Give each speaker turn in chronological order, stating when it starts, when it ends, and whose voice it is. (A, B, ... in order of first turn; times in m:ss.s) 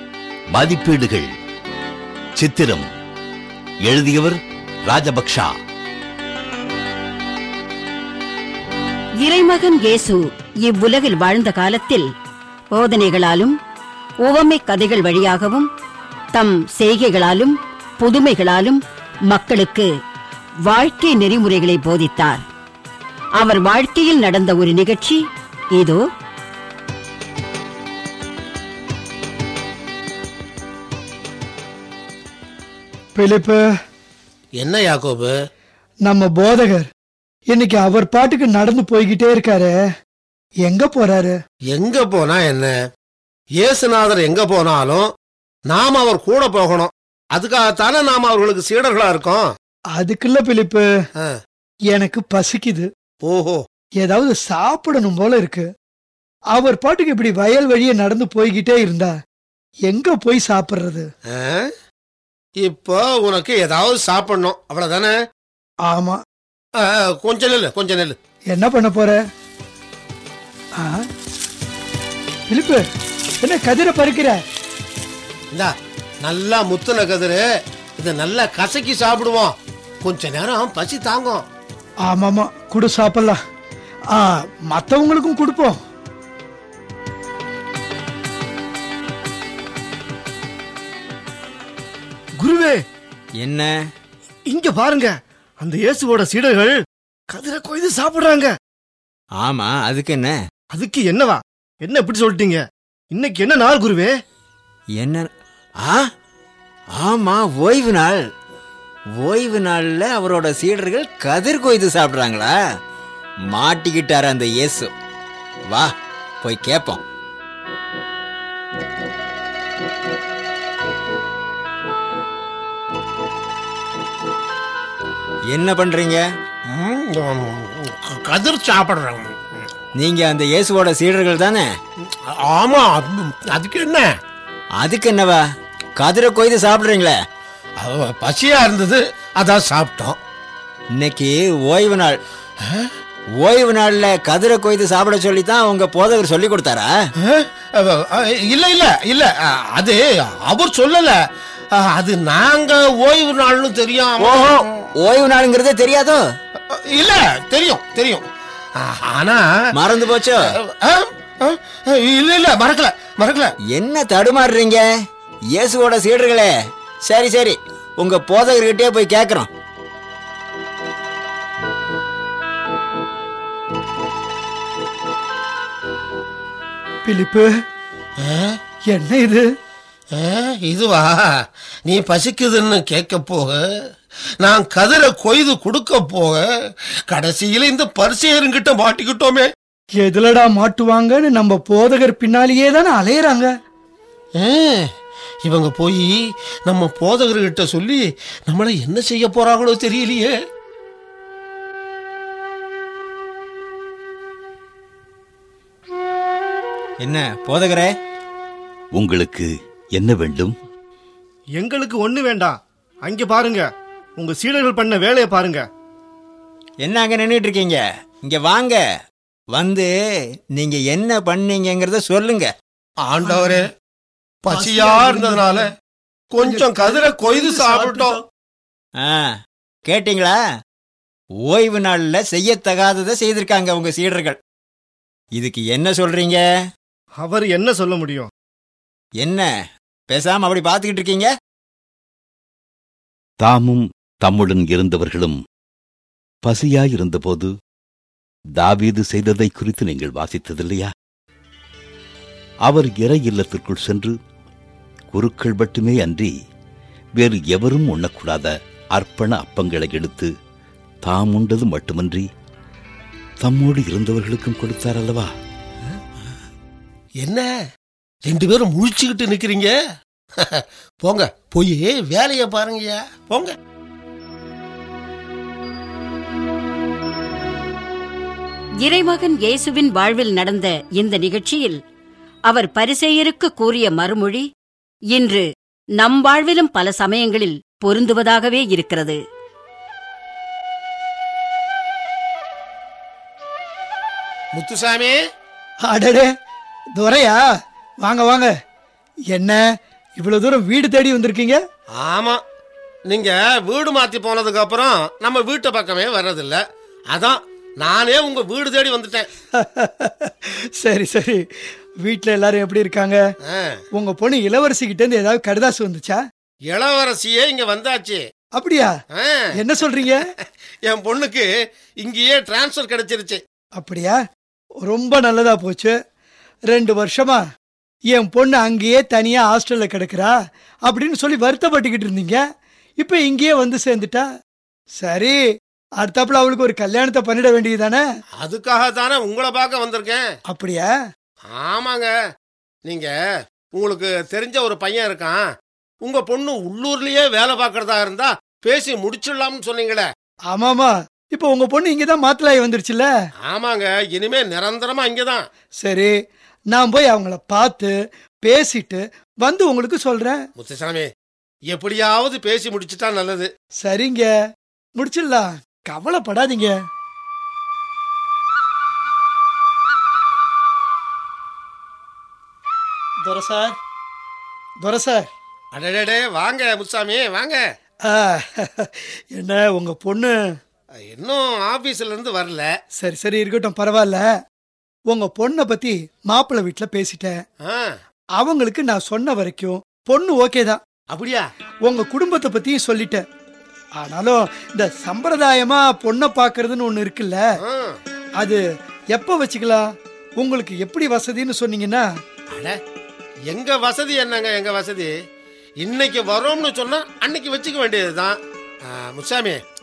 0:00.5-0:01.3 A
0:02.4-0:02.9 A
0:03.8-0:05.5 A
0:09.2-0:12.1 B
0:12.7-0:13.6 B
0:14.2-0:15.7 B
0:16.3-0:19.9 B
0:20.7-0:22.4 B
0:23.4-0:25.2 B
0:33.2-0:33.6 C
0:34.6-0:35.3 D
0:36.1-0:36.9 C
0:37.5-0:39.7 C
0:40.6-0:41.4 C
0:41.7-0:42.7 D
0:43.6-0:45.1 D
0:45.7-0:49.4 D
0:50.0-0:50.8 C
0:51.9-0:52.9 C
0:53.3-0:53.6 D
0:54.0-0:55.7 C
0:56.5-0:59.1 C
0:59.9-1:01.1 C
1:01.3-1:01.7 D
1:02.6-1:05.2 D
1:05.9-1:06.2 C
1:06.8-1:08.2 D
1:08.5-1:09.2 C
1:10.8-1:11.0 C
1:12.5-1:12.8 C
1:13.4-1:14.4 C
1:16.2-1:17.4 D
1:18.0-1:19.5 D
1:20.0-1:21.4 D
1:22.1-1:23.4 C
1:24.1-1:25.8 C
1:32.4-1:32.7 E
1:33.4-1:33.7 F
1:34.6-1:35.1 E
1:35.7-1:36.7 E
1:37.4-1:38.4 E
1:39.4-1:40.4 F
1:40.8-1:41.3 E
1:41.9-1:42.5 E
1:43.2-1:43.8 E
1:45.0-1:46.1 F
1:46.9-1:48.2 F
1:49.2-1:52.6 F
1:53.5-1:54.9 F
1:55.7-1:57.0 F
2:05.5-2:06.2 F
2:06.7-2:09.4 D
2:10.0-2:11.8 F
2:12.4-2:14.1 D
2:14.8-2:15.4 F
2:16.0-2:17.2 F
2:17.8-2:20.2 D
2:21.0-2:22.2 F
2:23.4-2:26.9 F
2:27.2-2:31.2 D
2:31.8-2:34.6 D
2:34.2-2:36.2 F
2:36.9-2:38.3 D
2:38.8-2:39.4 D
2:39.8-2:40.5 F
2:40.6-2:43.5 D
2:43.7-2:44.8 F
2:45.5-2:46.5 F
2:47.0-2:49.5 F
2:57.1-2:57.5 C
2:58.2-2:58.5 D
2:58.9-2:59.4 C
3:00.2-3:01.3 D
3:01.9-3:03.6 D
3:04.4-3:06.4 D
3:07.1-3:09.5 D
3:10.0-3:13.5 C
3:14.4-3:14.9 D
3:15.5-3:16.1 D
3:16.7-3:20.4 D
3:27.0-3:28.0 F
3:29.0-3:30.6 A
3:36.8-3:38.8 F
3:39.5-3:39.9 F
3:40.5-3:42.5 F
3:43.0-3:43.7 D
3:43.3-3:43.6 C
3:44.4-3:45.7 D
3:44.5-3:45.7 C
3:46.3-3:48.2 D
3:46.4-3:48.2 C
3:49.0-3:49.3 F
3:49.8-3:50.4 F
3:51.4-3:54.4 F
3:55.4-3:56.4 F
3:57.3-3:58.0 E
3:59.2-3:59.5 F
4:00.1-4:01.3 F
4:03.4-4:05.4 A
4:06.4-4:07.5 A
4:08.6-4:10.9 A
4:12.7-4:14.1 A
4:15.1-4:16.3 A
4:17.2-4:20.3 A
4:21.0-4:22.2 A
4:23.4-4:25.3 A
4:28.3-4:29.7 D
4:30.4-4:33.5 D
4:38.8-4:41.8 B
4:42.5-4:44.5 B
4:45.1-4:45.5 B
4:46.0-4:49.2 B
4:54.6-4:55.2 D
4:55.9-4:56.3 C
4:57.0-4:57.4 C
4:58.0-4:58.5 C
4:59.3-4:59.6 C
5:00.2-5:01.6 C
5:02.0-5:02.4 D
5:03.1-5:06.6 D
5:07.1-5:09.3 D
5:09.5-5:11.4 C
5:12.0-5:13.2 C
5:13.5-5:13.8 D
5:14.0-5:16.2 C
5:16.7-5:18.2 D
5:18.6-5:18.9 C
5:19.2-5:19.4 D
5:19.6-5:20.2 C
5:20.9-5:21.5 D
5:22.0-5:23.4 D
5:23.8-5:24.2 C
5:24.8-5:26.0 C
5:26.7-5:27.4 C
5:28.1-5:30.4 C
5:30.9-5:32.4 C
5:33.0-5:34.3 C
5:35.0-5:35.4 C
5:36.0-5:38.0 C
5:38.4-5:40.2 D
5:40.5-5:40.9 C
5:41.6-5:42.1 D
5:42.9-5:43.1 D
5:43.8-5:45.4 D
5:46.0-5:50.1 D
5:50.5-5:53.1 C
5:53.5-5:55.5 D
5:55.8-5:56.1 C
5:56.7-6:00.4 C
6:00.6-6:01.1 D
6:01.7-6:03.5 D
6:03.8-6:04.3 C
6:05.0-6:06.7 C
6:13.2-6:13.8 C
6:14.8-6:15.3 C
6:15.8-6:17.6 D
6:18.0-6:20.4 C
6:21.0-6:22.7 D
6:23.0-6:24.2 C
6:25.1-6:27.4 C
6:27.6-6:27.9 D
6:28.4-6:30.8 C
6:31.1-6:31.4 D
6:31.9-6:33.2 C
6:34.0-6:37.4 C
6:37.6-6:38.0 D
6:39.1-6:39.9 C
6:40.4-6:42.0 C
6:43.5-6:45.1 D
6:45.8-6:48.4 D
6:48.9-6:49.6 D